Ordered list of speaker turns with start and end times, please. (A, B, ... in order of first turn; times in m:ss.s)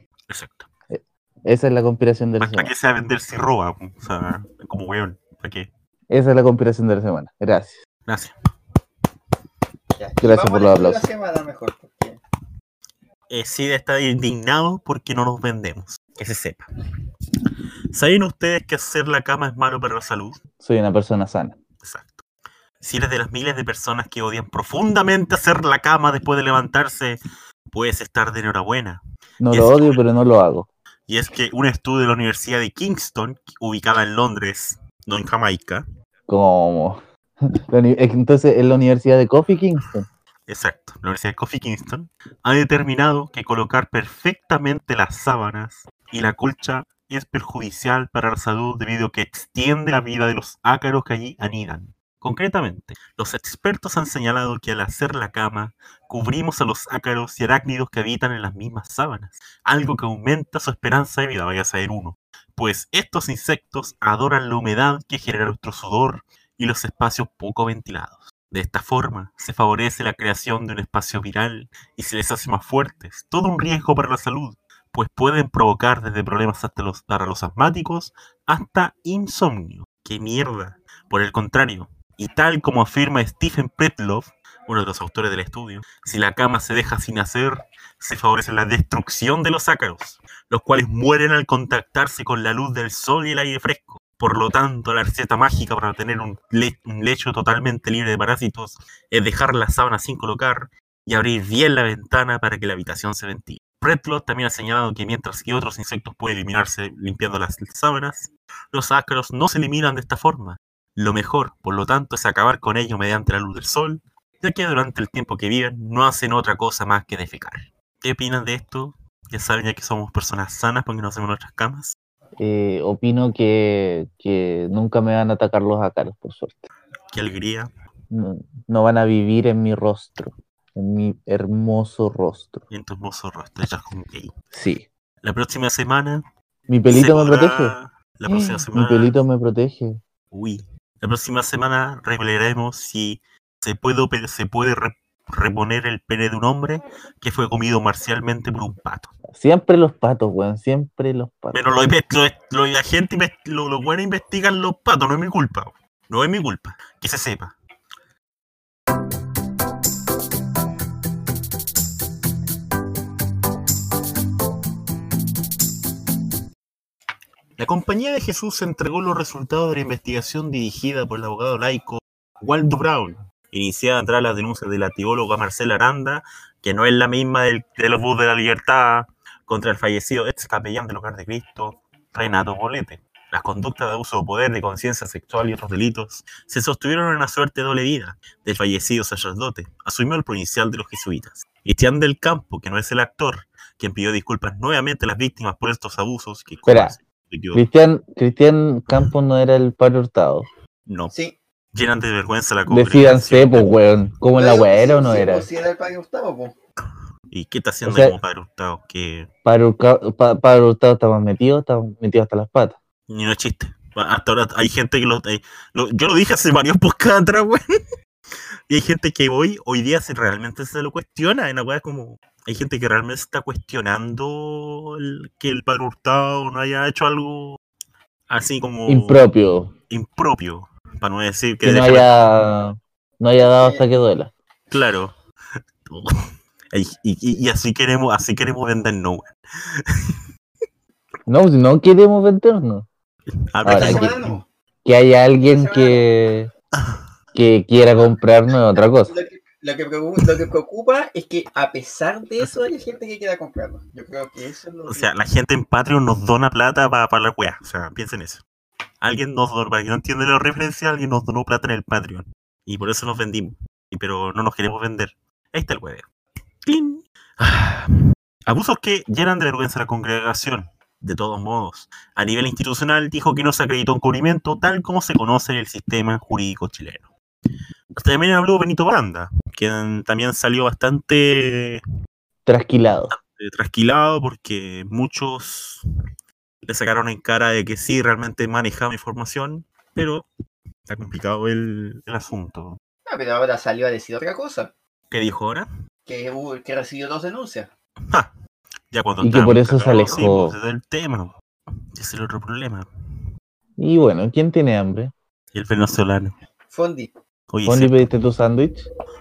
0:00.3-0:00.7 A
0:00.9-0:02.7 B
0:02.4-0:05.7 A
0:06.1-0:07.8 B
0:08.1-0:08.3 A
0:10.0-0:12.2 C
0:10.2-0:11.1 B
0:13.3-0:16.7 A
0:17.9-0:20.4 A
0:20.6-0:21.6 B
0:21.8-0:22.2 A
0:22.8-0:27.2 A
0:27.7-0:30.0 A
0:29.4-0:30.7 B
0:31.1-0:35.8 A
0:36.3-0:37.0 B
0:37.7-0:40.1 B
0:40.5-2:02.0 A
2:02.4-2:06.7 B
2:07.1-2:07.7 A
2:08.1-2:12.6 B
2:12.7-2:14.3 A
2:14.5-2:14.9 B
2:15.2-2:16.2 A
2:16.7-2:17.8 B
2:16.9-2:19.1 A
2:18.3-2:20.0 B
2:20.3-2:29.1 A
2:29.3-2:31.7 B
2:31.5-2:37.6 A
2:47.6-3:17.6 A
3:16.7-3:17.0 B
3:17.5-3:20.5 B
3:20.9-3:21.1 A
3:21.1-3:21.4 C
3:21.7-3:23.7 A
3:22.7-3:25.5 B
3:24.4-3:26.6 C
3:27.3-3:29.3 A
3:27.8-3:28.2 B
3:29.4-3:32.8 B
3:33.1-3:37.6 A
3:38.7-3:47.6 A
3:48.3-3:49.2 A
3:48.9-3:49.7 B
3:49.9-3:52.1 A
3:51.6-3:54.3 B
3:53.4-3:53.8 C
3:54.7-3:55.1 A
3:56.7-3:59.3 A
3:59.9-4:00.2 A
4:01.3-4:02.9 B
4:03.5-4:04.3 A
4:03.6-4:06.5 B
4:03.7-4:04.5 C
4:05.4-4:06.1 C
4:06.7-4:07.0 A
4:07.4-4:09.2 B
4:09.0-4:15.1 C
4:14.9-4:18.4 A
4:19.0-4:26.1 A
4:26.6-4:27.9 A
4:28.5-4:37.1 A
4:38.0-4:41.8 A
4:42.5-4:43.2 B
4:43.1-4:45.8 A
4:46.6-4:50.3 A
4:50.9-4:52.8 A
4:53.1-4:54.7 C
4:55.1-4:55.7 A
4:56.1-4:57.7 C
4:58.9-5:01.3 A
4:59.2-5:00.6 B
4:59.9-5:00.3 C
5:01.9-5:02.9 A
5:03.8-5:05.1 B
5:05.5-5:06.4 A
5:06.7-5:07.1 C
5:07.5-5:08.1 A
5:07.6-5:08.9 B